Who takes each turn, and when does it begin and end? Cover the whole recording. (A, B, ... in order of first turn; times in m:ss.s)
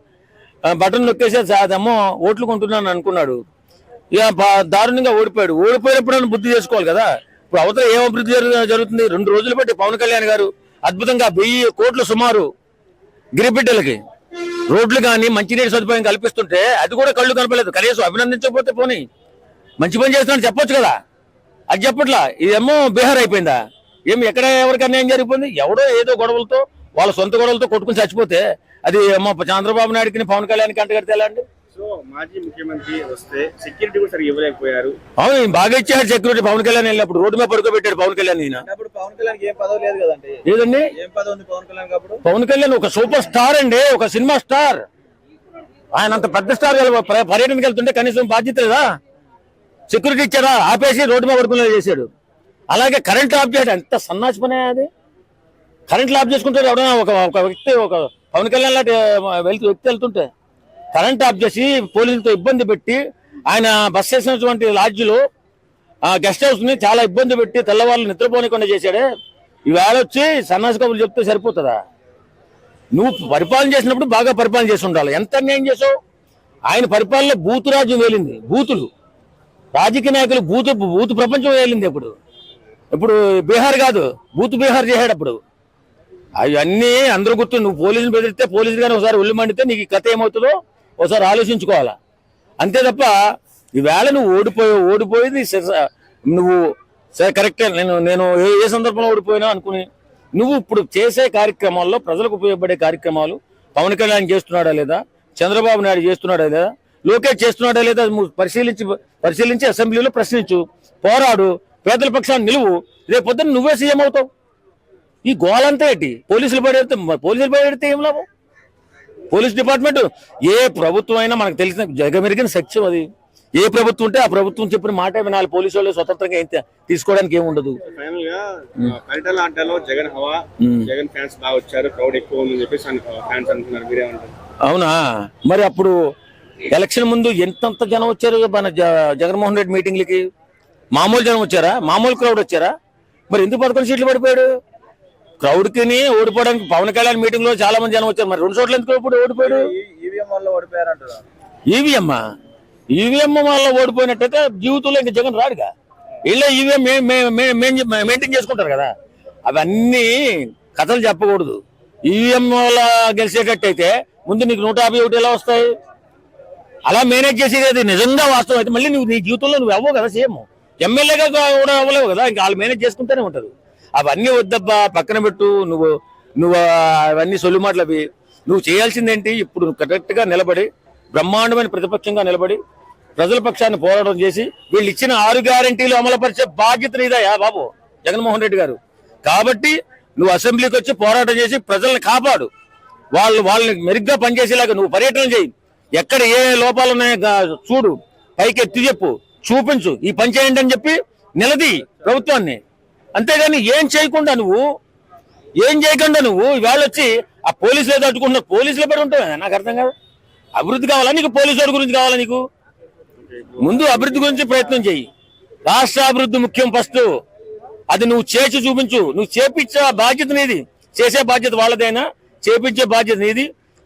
0:00.7-0:03.4 A
0:04.1-0:12.5 A
0:13.4-0:14.0 A
0:14.7-0:19.0 A
0:19.8-0:21.0 A
0:21.7-0:31.4 A
0:31.7-0:35.0 B
0:35.2-0:38.6 A
0:38.6-0:40.4 C
0:40.4-0:40.9 A
0:40.9-0:42.2 C
0:42.2-0:44.8 A
0:45.9-0:48.8 A
0:49.9-0:52.1 A
0:52.7-0:54.9 A
0:55.9-1:00.3 A
1:00.9-1:05.2 A
1:06.1-1:09.0 A
1:09.7-1:11.8 A
1:12.9-1:15.9 A
1:16.7-1:18.9 A
1:19.7-1:22.1 A
1:22.9-1:25.4 A
1:26.4-1:32.0 A
1:32.6-1:33.1 A
1:33.8-1:36.6 A
1:37.2-1:54.3 A
1:55.2-1:58.2 A
1:59.3-2:03.1 A
2:03.6-2:07.8 A
2:07.8-2:14.3 B
2:10.6-2:10.9 A
2:14.6-2:15.9 A
2:16.7-2:20.2 A
2:20.9-2:22.7 A
2:23.3-2:24.5 A
2:25.4-2:29.7 A
2:29.4-2:31.2 C
2:31.7-2:32.2 A
2:32.9-2:35.7 A
2:36.2-2:38.9 A
2:39.4-2:45.7 A
2:46.9-3:02.6 A
3:03.2-3:12.5 A
3:13.2-3:22.6 A
3:23.2-3:24.6 A
3:25.6-3:29.9 A
3:30.6-3:32.4 A
3:33.2-3:34.5 B
3:33.6-3:35.0 A
3:35.7-3:37.1 A
3:37.9-3:43.5 A